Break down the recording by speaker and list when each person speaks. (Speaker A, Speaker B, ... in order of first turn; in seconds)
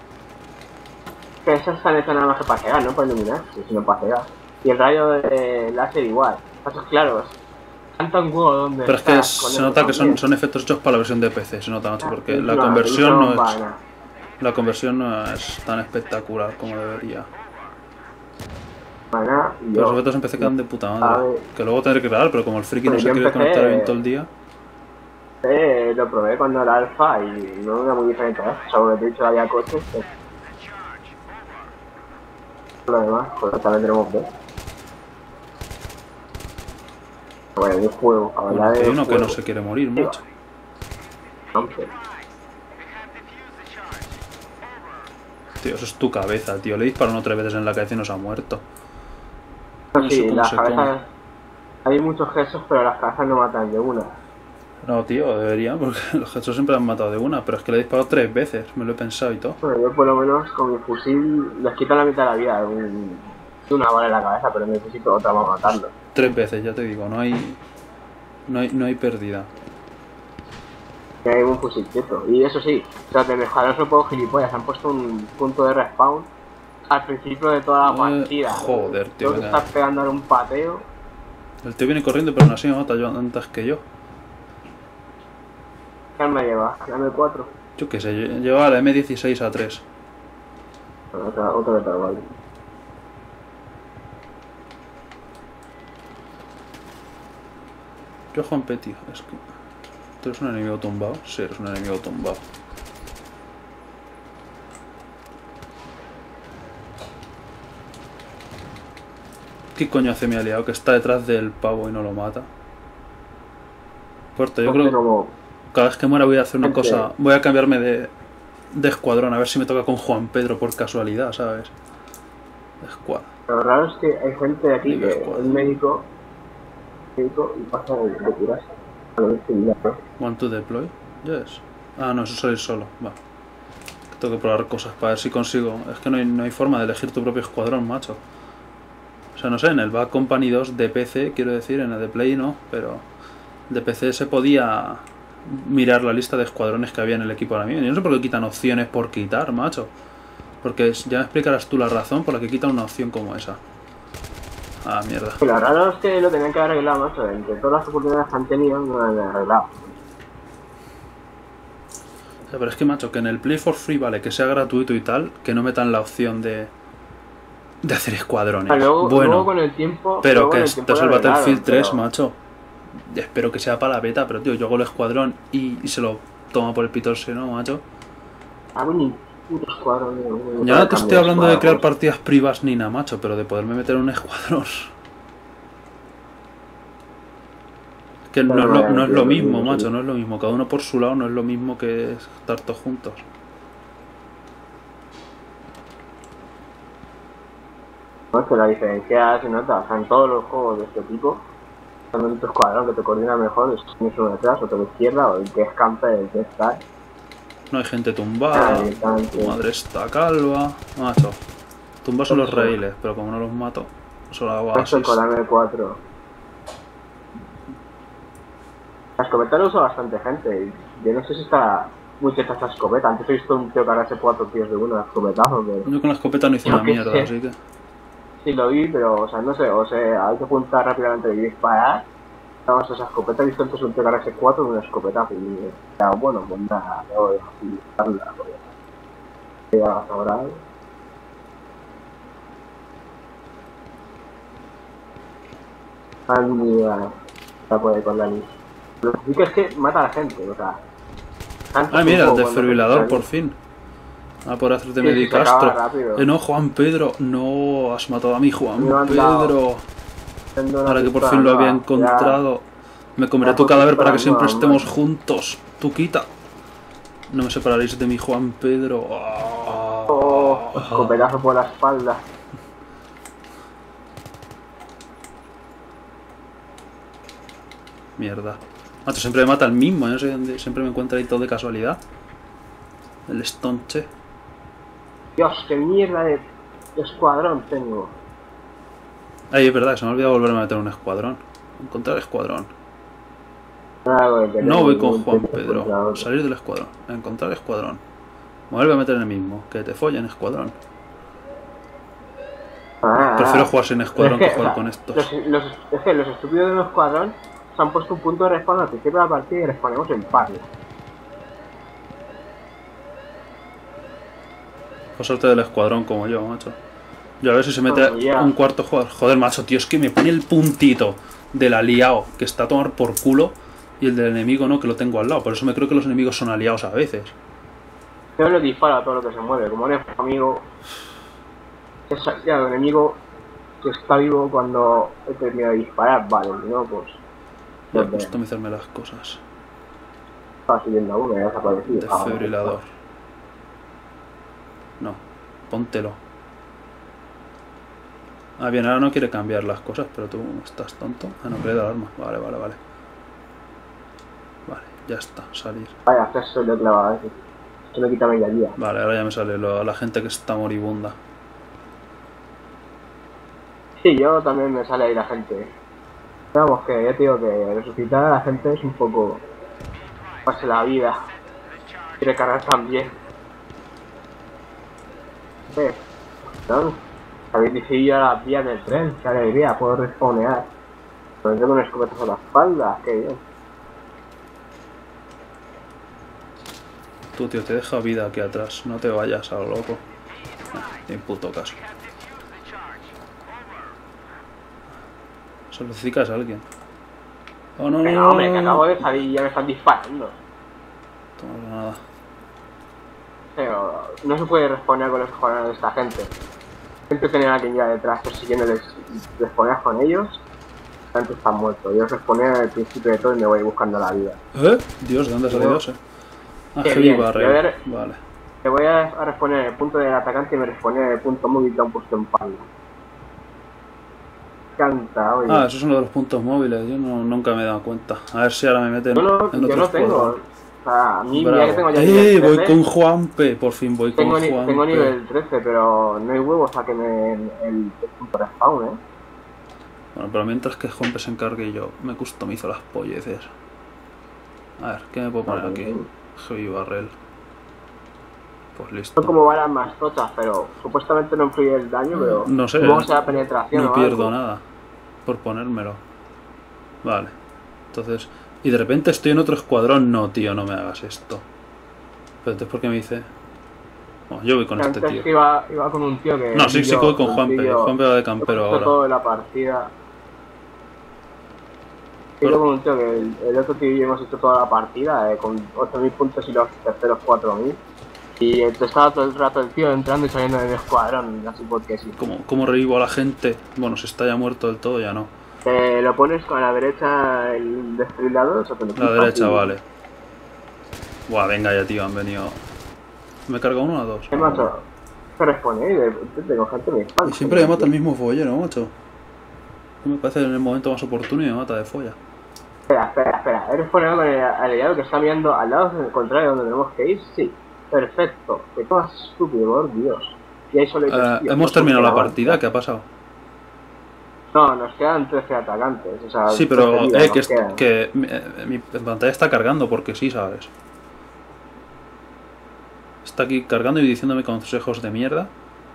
Speaker A: 1.4-7.4, 8.0-10.2, 12.0-13.8, 19.1-20.5, 21.0-21.5, 22.9-24.0, 25.4-30.1, 32.9-34.3, 37.5-39.4, 41.5-41.9, 49.9-51.0, 51.8-54.1, 59.6-66.0, 71.2-76.3, 76.9-80.8, 86.2-87.5, 91.1-92.3, 114.7-115.3, 116.6-117.1, 123.5-126.1, 127.2-130.0, 155.4-159.9, 168.7-172.0, 178.8-181.8, 188.5-189.9, 198.3-201.4, 202.1-206.8, 208.5-209.6, 212.3-212.8, 214.7-216.0, 219.2-225.9, 226.6-227.3, 228.4-232.1, 232.7-238.6, 239.7-240.6, 246.3-247.1, 247.7-248.5, 249.0-250.8, 251.7-253.2, 255.0-256.3, 258.8-259.6, 260.6-262.4, 263.4-264.9, 270.1-272.2, 285.4-286.4, 286.9-288.1, 294.0-296.2, 303.0-310.7, 317.9-318.5, 328.4-330.7, 332.1-333.2, 333.8-337.2, 337.9-338.3, 340.7-342.8, 356.1-357.3, 357.9-358.8, 364.0-365.7, 366.5-369.5, 370.4-371.2, 372.2-373.1, 375.7-376.0, 376.6-377.0, 377.5-380.7, 381.4-383.4, 398.0-400.4, 403.6-406.3, 407.1-410.4, 411.1-414.4, 415.5-415.8, 416.8-417.8, 418.6-422.7, 424.8-425.6, 429.1-432.8, 434.1-439.0, 445.5-446.1, 449.2-454.3, 464.8-469.9, 472.4-477.8, 478.4-482.2, 485.6-489.7, 494.3-494.8, 495.4-497.9, 502.9-512.6, 514.5-517.8
Speaker B: 8.8-13.6, 14.4-17.3, 19.8-24.3, 38.5-40.2, 45.6-48.6, 50.0-50.9, 54.8-59.6, 65.7-67.6, 68.5-69.5, 77.8-79.7, 81.6-83.8, 87.8-89.8, 98.3-99.4, 100.2-102.4, 109.7-112.5, 114.3-115.0, 115.7-118.1, 118.7-121.7, 122.8-123.3, 124.8-125.7, 130.2-133.2, 134.1-138.2, 139.3-143.0, 143.7-149.9, 150.6-153.6, 154.8-155.4, 162.5-166.7, 167.8-169.5, 170.2-172.4, 173.0-177.8, 180.6-184.9, 188.3-193.2, 207.7-211.4, 212.0-215.2, 225.8-227.6, 251.9-253.5, 254.4-259.8, 260.9-262.6, 263.2-266.3, 267.3-271.1, 278.2-282.0, 283.3-284.1, 289.5-292.7, 294.6-298.0, 298.7-300.7, 303.2-305.2, 315.2-316.8, 317.4-327.3, 337.9-339.4, 341.9-342.9, 345.0-346.2, 348.6-352.8, 354.6-355.9, 358.8-361.1, 387.3-390.0, 390.7-391.8, 395.7-396.6, 397.8-399.0, 401.4-402.0, 414.5-416.0, 416.7-418.2, 425.5-430.4, 431.3-435.1, 440.1-443.5, 444.8-447.1, 448.7-449.3, 452.1-453.1, 453.7-454.6, 455.2-456.0, 457.0-457.3, 457.9-461.4, 462.4-463.3, 464.3-465.3, 466.5-468.9, 482.2-485.3, 488.9-489.8, 491.3-492.6, 493.5-494.7, 497.2-498.9, 500.0-502.2, 511.1-513.0, 516.5-520.7, 523.2-525.5